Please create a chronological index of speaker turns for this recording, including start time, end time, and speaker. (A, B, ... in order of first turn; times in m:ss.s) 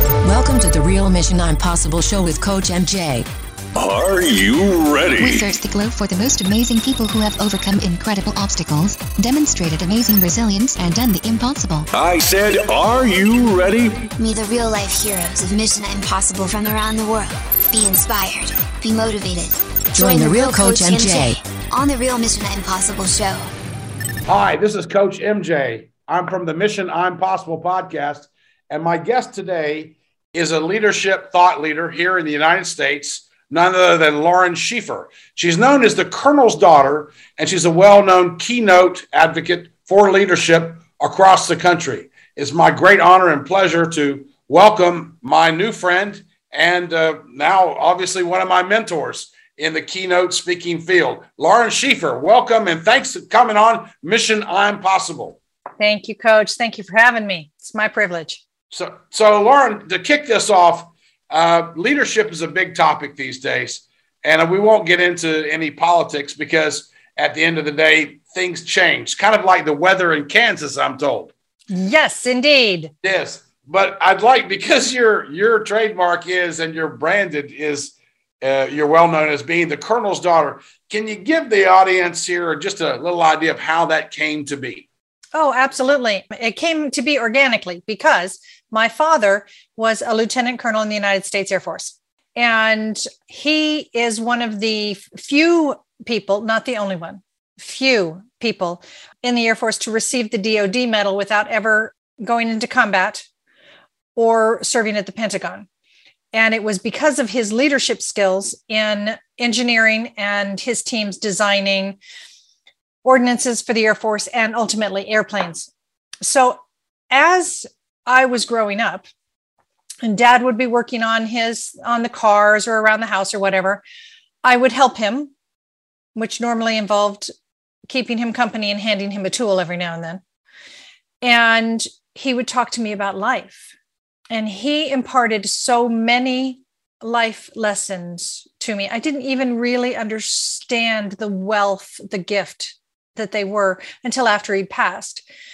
0:00.2-0:03.3 A
0:03.8-0:05.4 B
0:05.2-0:11.9 C
0:11.9-0:14.1 B
0:14.2-0:23.5 D
0:19.9-0:21.4 A
0:24.3-0:55.4 E
0:55.8-0:58.4 F
0:58.7-1:11.3 E
1:11.7-1:12.9 F
1:13.0-1:24.9 E
1:25.4-1:43.3 F
1:44.2-1:45.7 F
1:46.3-1:52.0 F
1:53.0-1:55.7 F
1:56.2-1:56.6 F
1:57.1-1:59.0 F
2:00.0-2:03.8 F
2:04.4-2:05.3 F
2:06.2-2:07.3 F
2:07.9-2:10.2 F
2:11.2-2:13.7 F
2:14.3-2:25.2 F